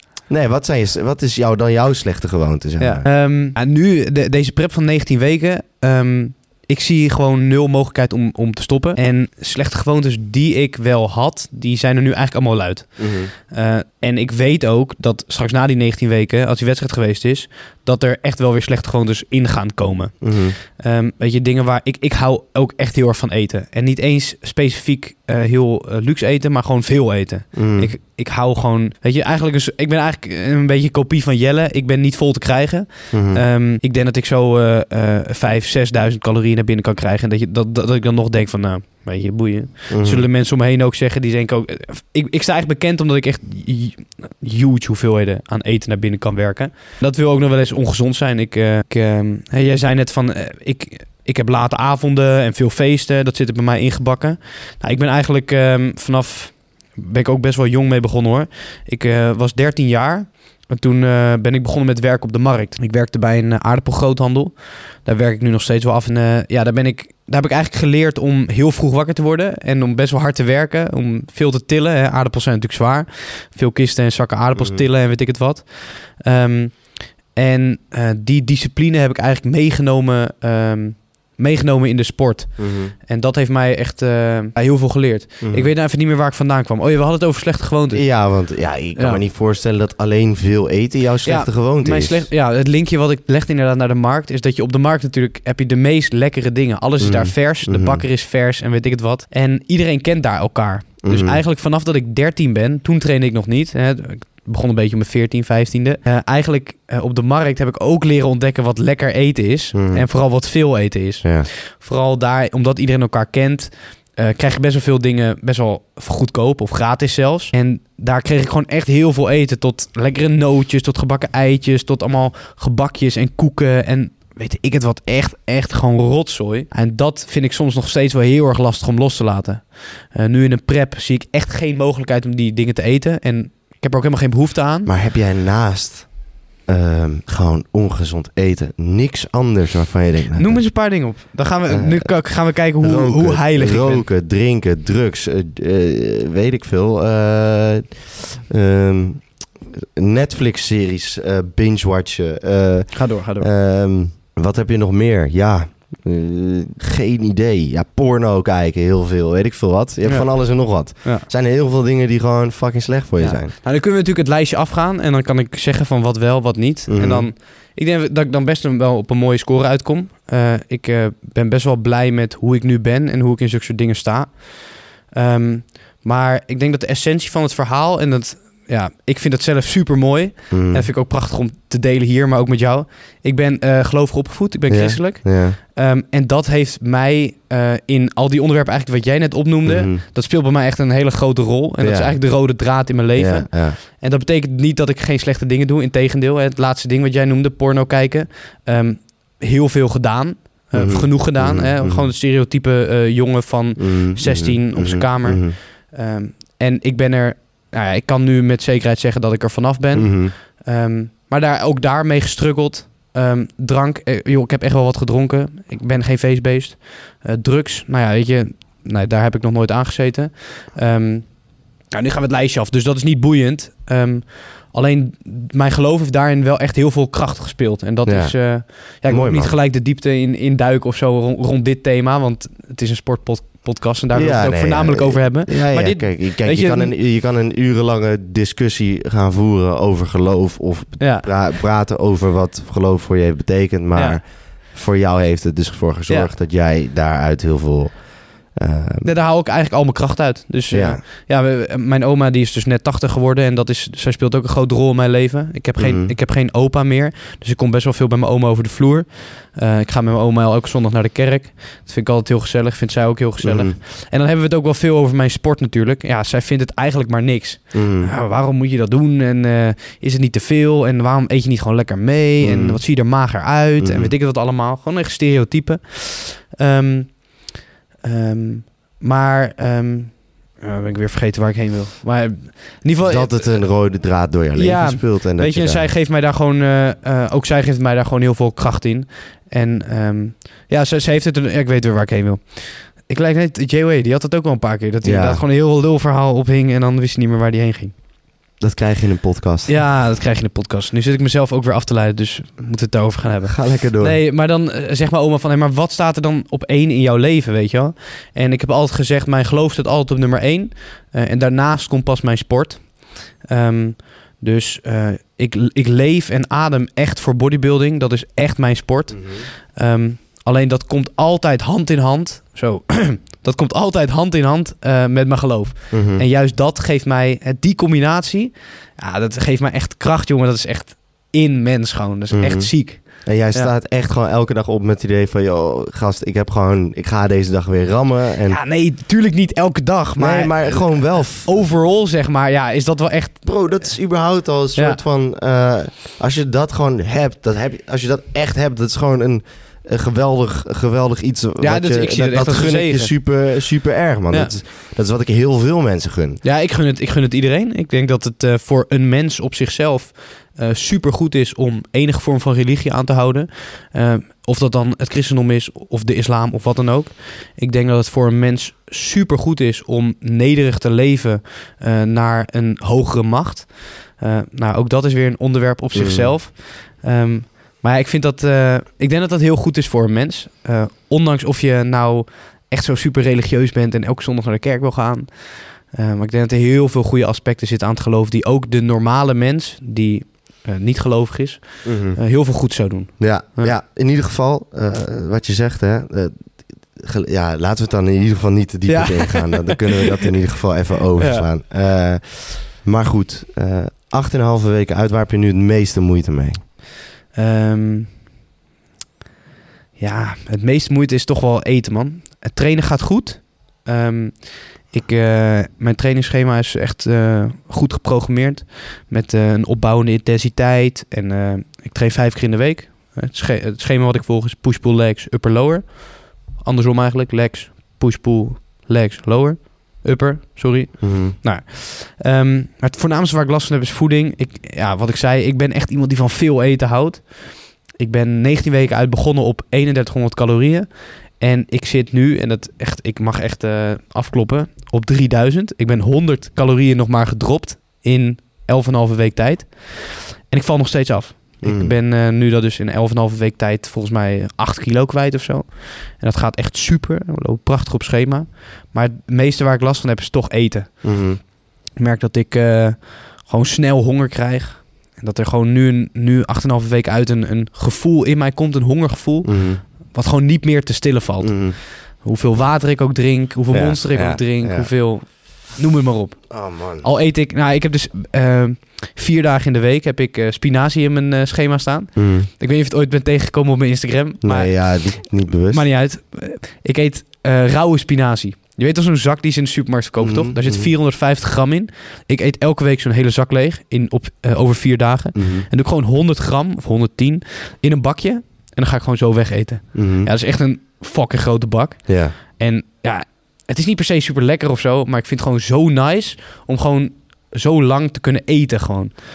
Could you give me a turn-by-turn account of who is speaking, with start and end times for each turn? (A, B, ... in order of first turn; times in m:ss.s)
0:00.3-0:03.1 A
0:02.8-1:29.2 B
0:13.0-0:13.3 A
0:20.2-0:20.6 A
0:27.5-0:27.9 A
0:33.1-0:33.4 A
0:39.9-0:40.3 A
1:14.5-1:14.8 A
1:22.6-1:22.9 A
1:25.4-1:25.7 A
1:27.9-1:32.3 A
1:31.2-2:14.9 B
1:37.0-1:38.0 A
1:41.0-1:41.4 A
1:49.7-1:50.1 A
1:51.2-1:51.5 A
2:14.8-2:20.8 A
2:20.4-2:24.1 B
2:21.7-2:43.5 A
2:32.9-2:33.5 B
2:40.0-2:41.2 B
2:43.2-3:56.9 B
2:46.9-2:47.3 A
3:00.5-3:00.9 A
3:04.7-3:05.6 A
3:09.6-3:10.0 A
3:11.8-3:13.8 A
3:20.7-3:22.1 A
3:23.8-3:25.6 A
3:29.9-3:30.3 A
3:48.0-3:49.6 A
3:54.1-4:09.1 A
4:01.0-4:01.3 B
4:03.9-4:04.2 B
4:09.0-4:58.0 B
4:10.7-4:11.0 A
4:15.8-4:16.2 A
4:23.4-4:23.8 A
4:27.7-4:28.1 A
4:32.4-4:34.1 A
4:43.0-4:45.9 A
4:55.0-4:55.4 A
4:58.6-4:59.8 A
4:59.7-5:33.7 B
5:03.4-5:04.2 A
5:19.1-5:19.4 A
5:25.9-5:26.2 A
5:32.3-5:38.6 A
5:38.5-5:44.2 B
5:40.2-5:41.7 A
5:43.4-5:56.4 A
5:44.7-5:45.0 B
5:51.6-5:53.6 B
5:54.3-5:54.6 B
5:56.4-6:33.8 B
6:15.9-6:16.4 A
6:31.8-6:46.6 A
6:38.9-6:40.1 B
6:41.2-6:41.5 B
6:47.3-6:48.2 B
6:50.0-8:29.2 B
7:11.0-7:11.4 A
7:31.6-7:31.9 A
7:41.0-7:41.4 A
7:49.4-7:49.8 A
7:51.4-7:51.8 A
7:53.7-7:55.3 A
7:56.5-7:57.1 A
8:02.1-8:02.5 A
8:04.4-8:05.9 A
8:10.2-8:10.9 A
8:15.3-8:15.7 A
8:19.9-8:20.3 A
8:22.1-8:22.3 A